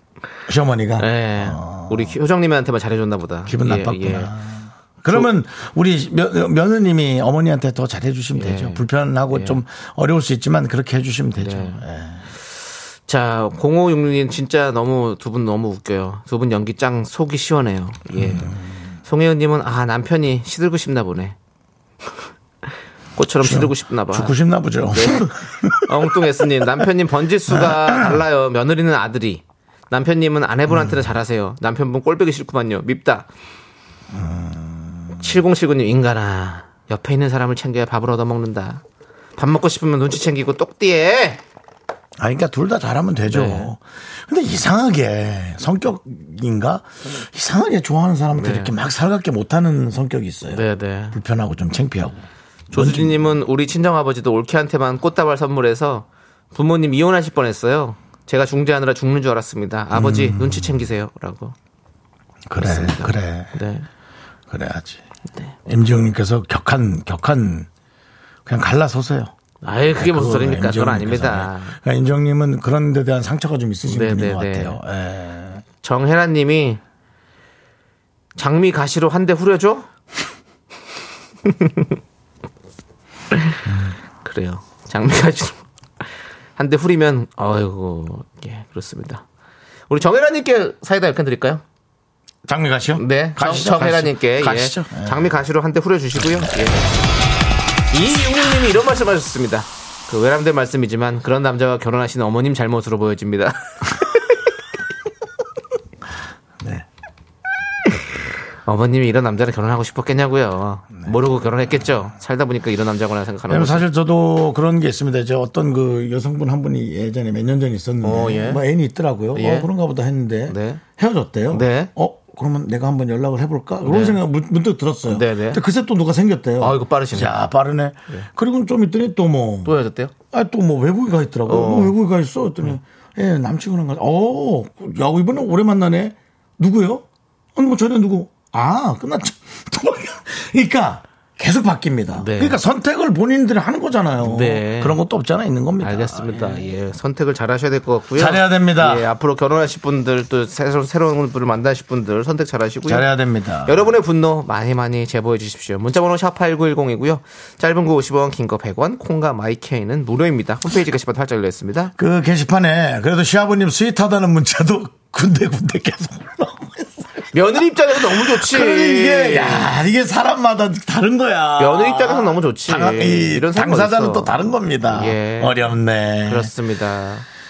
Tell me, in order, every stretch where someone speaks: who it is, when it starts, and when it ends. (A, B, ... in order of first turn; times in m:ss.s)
0:00.5-0:02.2 A
0:01.0-0:04.3 B
0:03.5-0:12.3 A
0:08.4-0:09.6 B
0:11.4-0:11.8 B
0:13.1-0:21.4 B
0:18.1-0:18.7 A
0:23.2-0:24.4 B
0:23.4-0:25.9 A
0:24.9-0:33.3 B
0:27.5-0:28.2 A
0:34.1-0:35.2 A
0:35.2-0:38.8 B
0:39.4-0:41.4 B
0:42.2-0:53.4 A
0:43.3-0:43.7 B
0:48.4-0:48.7 B
0:50.5-0:51.2 B
0:52.7-1:01.6 B
0:59.9-1:00.8 A
1:02.5-1:03.6 A
1:02.6-1:03.9 B
1:04.5-1:05.0 A
1:05.7-1:07.7 A
1:08.5-1:09.3 A
1:09.6-1:11.8 B
1:10.0-1:15.6 A
1:13.9-1:14.8 B
1:15.8-1:16.8 B
1:18.4-1:19.9 B
1:21.5-1:21.9 B
1:23.3-1:23.6 B
1:24.2-1:25.6 B
1:26.6-1:29.2 B
1:29.9-1:31.6 B
1:32.5-1:35.3 A
1:33.0-1:36.9 B
1:37.9-1:44.4 B
1:46.6-1:46.9 A
1:48.7-1:53.9 B
1:53.5-2:09.7 A
1:58.0-1:58.6 B
1:59.3-1:59.7 B
2:00.5-2:00.8 B
2:01.5-2:01.9 B
2:03.8-2:04.2 B
2:05.1-2:05.6 B
2:06.6-2:07.4 B
2:09.6-2:10.1 B
2:10.3-2:17.0 A
2:11.5-2:12.0 B
2:17.6-2:26.6 A
2:22.1-2:22.6 B
2:24.2-2:25.0 B
2:25.8-2:33.1 B
2:28.2-2:29.1 A
2:32.9-2:33.9 A
2:33.7-2:41.9 B
2:42.0-2:47.3 A
2:47.3-2:49.7 B
2:47.9-2:56.5 A
2:51.6-2:55.6 B
2:56.2-2:57.2 B